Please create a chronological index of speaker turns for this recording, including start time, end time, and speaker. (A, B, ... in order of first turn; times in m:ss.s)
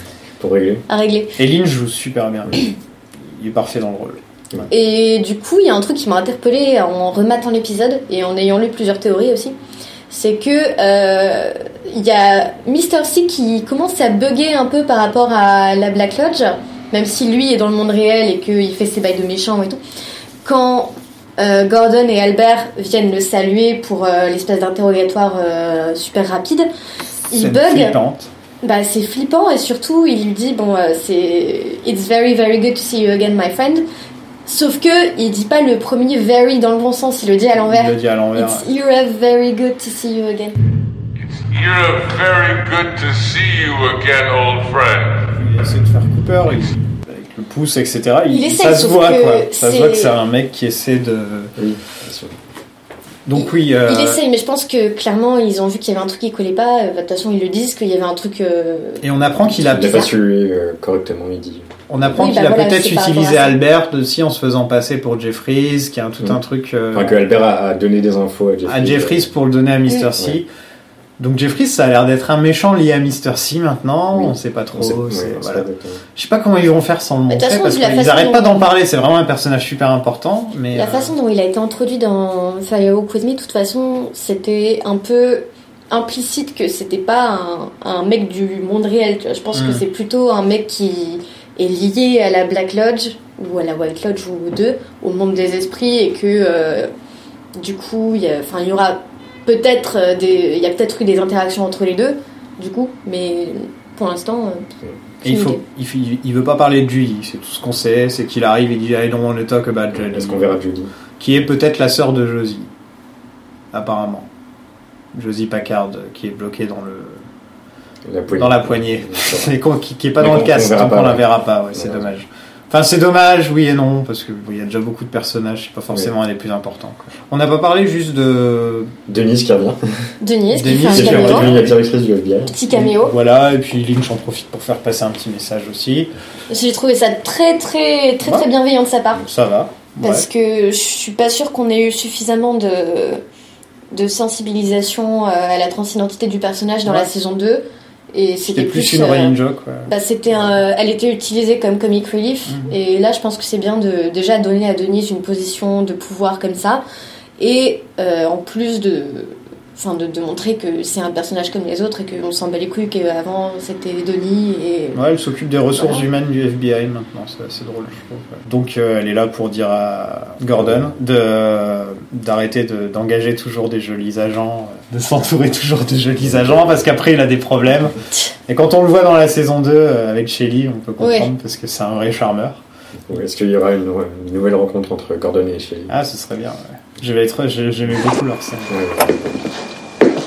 0:00.4-0:00.8 A
0:00.9-0:01.3 B
0:01.4-0:02.7 C
0:03.2-0:04.2 C
0:04.7-0:09.6 B
0:10.1-0:19.8 B
0:20.4-0:26.7 B
0:27.3-0:28.0 B
0:27.3-0:28.3 C
0:28.6-0:33.8 B
0:34.4-0:40.6 B
0:37.6-0:38.6 C
0:41.2-0:45.3 D
0:45.4-0:51.5 C
0:48.3-0:50.1 B
0:51.6-0:52.3 A
0:53.2-0:54.2 C
0:53.3-0:59.0 B
0:59.0-1:00.1 C
0:59.6-1:02.3 A
0:59.7-1:00.1 B
1:01.9-1:07.2 C
1:02.2-1:03.6 B
1:06.9-1:09.3 A
1:08.6-1:10.5 C
1:11.2-1:21.1 C
1:14.1-1:16.0 A
1:17.3-1:18.6 B
1:20.7-1:36.9 B
1:29.5-1:29.8 C
1:37.6-1:44.6 B
1:45.2-1:45.6 B
1:45.2-1:50.6 C
1:49.9-1:50.9 A
1:51.2-1:52.7 C
1:53.7-1:54.3 C
1:55.1-1:57.2 C
1:58.0-1:59.5 A
1:58.3-2:08.9 C
2:00.2-2:02.1 A
2:09.1-2:09.8 A
2:10.2-2:11.5 B
2:10.5-2:11.8 C
2:10.9-2:12.5 A
2:12.5-2:13.1 B
2:12.7-2:16.1 C
2:16.5-2:19.2 B
2:19.2-2:20.2 C
2:20.0-2:23.2 B
2:23.9-2:29.3 B
2:28.5-2:30.5 C
2:29.9-2:36.8 B
2:32.5-2:32.7 C
2:37.4-2:45.0 B
2:44.9-2:58.0 C
2:45.7-2:46.0 B
2:50.6-2:50.8 A
2:56.2-2:56.8 A
2:58.5-3:02.6 C
3:01.0-3:01.3 B
3:03.1-3:05.9 A
3:05.9-3:08.8 C
3:08.7-3:09.2 A